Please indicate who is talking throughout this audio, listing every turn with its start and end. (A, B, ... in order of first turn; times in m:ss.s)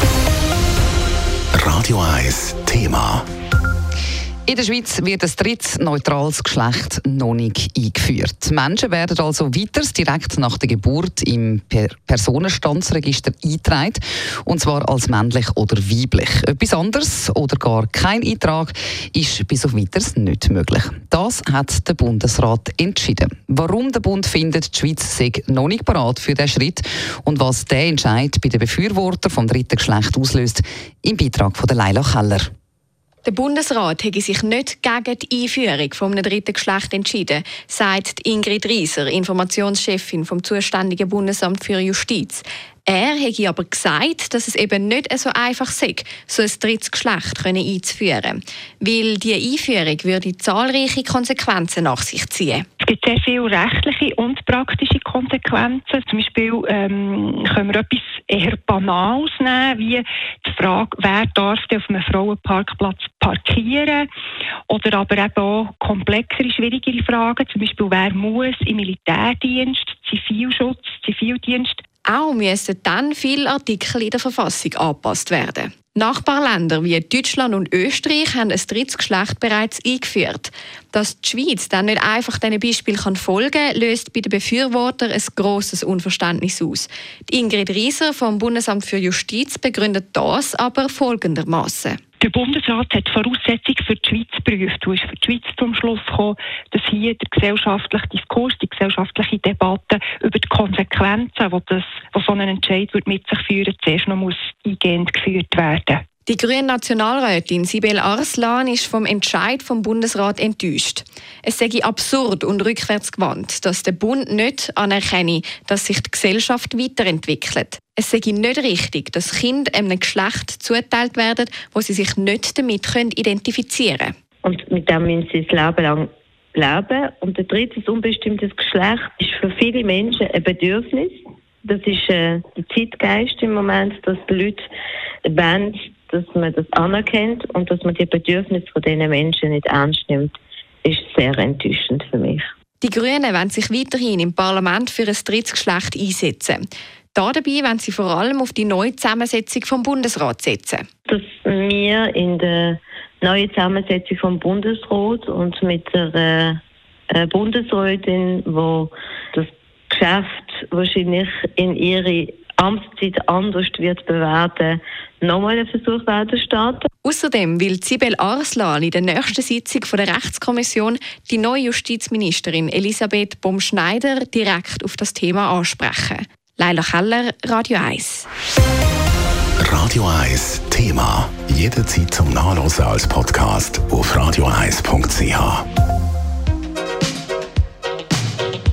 0:01.6-0:03.3 A
0:04.5-0:32.5 B
0:33.2-0:52.7 C
0:52.8-1:04.1 D
1:04.7-1:11.8 D
1:12.1-1:32.0 C
1:32.2-1:46.0 D
1:46.3-2:04.1 C
2:04.4-2:14.6 E
2:15.3-2:22.5 E
2:22.8-2:30.8 C
2:31.1-2:36.6 E
2:37.1-2:46.9 E
2:47.0-2:58.3 C
2:59.6-3:05.6 A